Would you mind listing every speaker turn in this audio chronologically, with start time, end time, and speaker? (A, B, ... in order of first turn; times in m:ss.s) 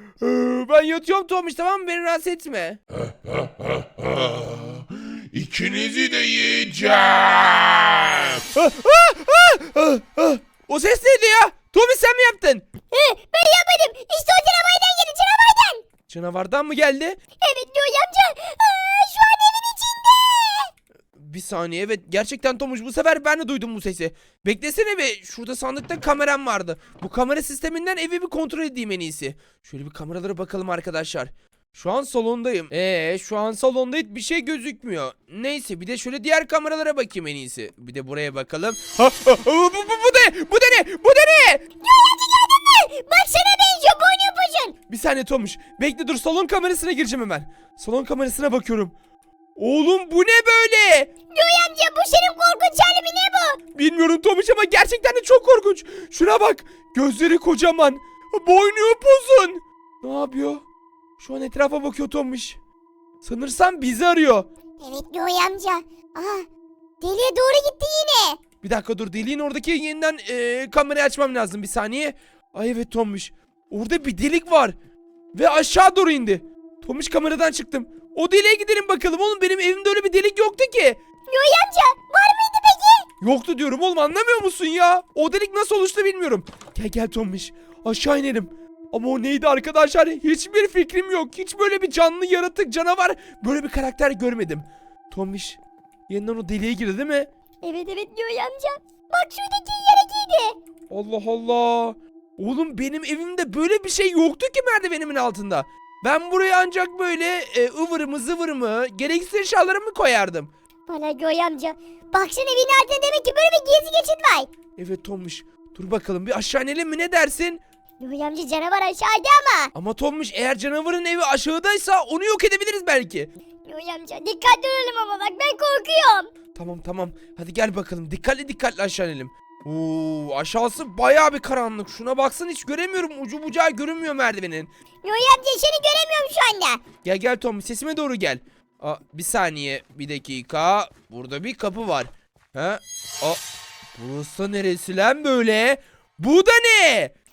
0:00.2-0:02.8 A
0:03.0-0:08.4 B
0:08.5-0:12.7 A
0:12.9-0:15.8 C
0:16.1-0:17.2 A
0:17.4-0:20.7 C
0:21.1-0:41.6 A
0:41.8-0:44.7 C
0:44.9-0:48.9 A
0:49.6-0:51.1 A
0:51.3-0:53.6 C
0:53.7-1:00.6 A
1:01.2-1:02.6 A
1:03.2-1:04.5 A
1:04.8-1:06.4 C
1:07.0-1:08.4 C
1:08.6-1:14.7 A
1:15.3-1:21.0 A
1:21.3-1:23.1 C
1:23.2-1:37.3 A
1:37.6-1:40.6 C
1:40.9-1:50.5 A
1:50.9-1:54.5 C
1:54.8-1:57.6 A
1:58.0-1:59.7 C
1:59.7-2:03.3 A
2:03.6-2:06.3 C
2:06.5-2:14.7 A
2:15.0-2:16.8 C
2:17.0-2:23.4 A
2:24.0-2:27.1 A